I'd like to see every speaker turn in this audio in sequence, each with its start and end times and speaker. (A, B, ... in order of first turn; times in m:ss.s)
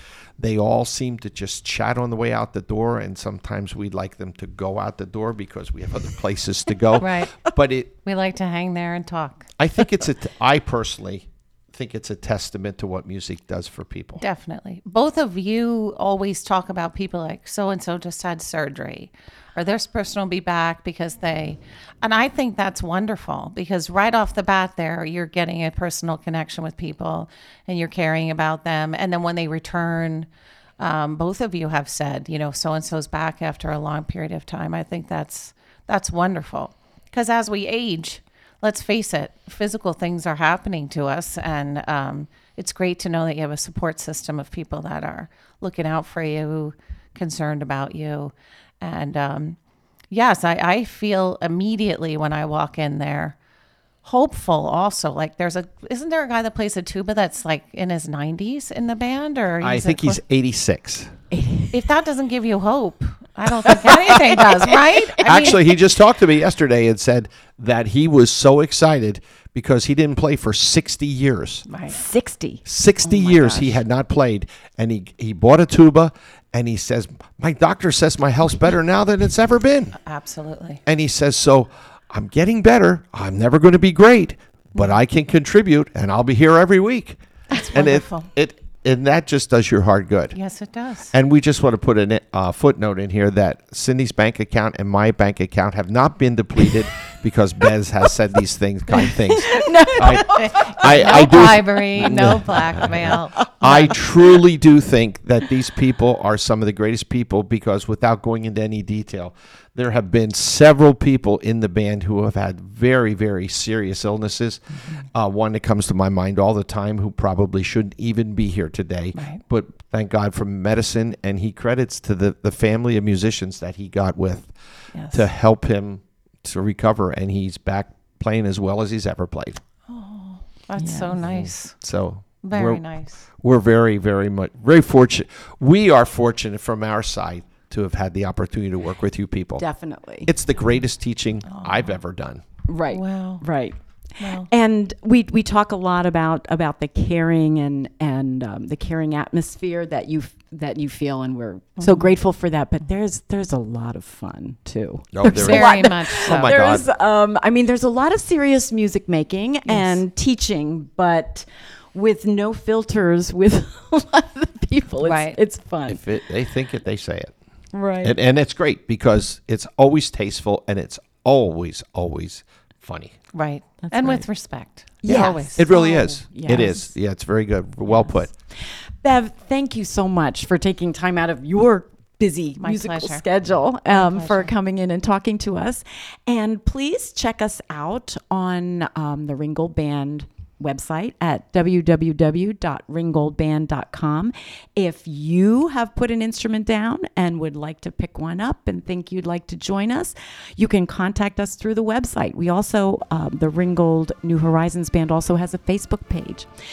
0:00.4-0:07.9 A
0:07.0-0:07.5 B
0:08.0-0:09.5 B
0:09.6-0:14.2 A
0:14.2-0:30.3 B
0:30.8-0:49.6 B
0:50.1-0:53.4 B
0:54.0-1:00.2 B
0:59.6-1:01.1 A
1:01.3-1:01.7 C
1:01.7-1:05.7 B
1:03.7-1:04.4 A
1:05.2-1:11.6 A
1:11.7-1:12.0 B
1:11.9-1:13.8 C
1:12.6-1:19.9 A
1:20.0-1:20.8 B
1:20.8-1:27.2 A
1:27.5-1:28.3 B
1:27.7-1:30.4 A
1:30.3-1:31.1 B
1:31.1-1:54.6 A
1:39.0-1:42.5 C
1:40.3-1:44.0 B
1:55.1-2:04.5 A
1:59.1-1:59.4 B
2:04.9-2:05.3 B
2:05.1-2:09.6 A
2:09.9-2:11.7 B
2:10.8-2:11.1 C
2:11.2-2:12.8 A
2:12.4-2:13.2 B
2:13.4-2:19.6 A
2:19.6-2:20.3 C
2:20.2-2:22.4 A
2:21.4-2:22.0 B
2:22.7-2:46.0 C
2:22.9-2:23.4 B
2:24.2-2:24.5 B
2:31.8-2:32.1 B
2:35.1-2:36.9 A
2:35.2-2:36.8 B
2:39.6-2:40.0 B
2:45.0-2:45.4 B
2:45.9-2:47.3 A
2:47.7-2:48.2 C
2:48.0-2:53.2 A
2:53.3-2:56.8 B
2:53.8-2:54.2 C
2:55.0-2:56.9 C
2:55.0-2:58.3 A
2:59.0-3:26.5 C
3:02.6-3:03.2 B
3:03.9-3:04.5 B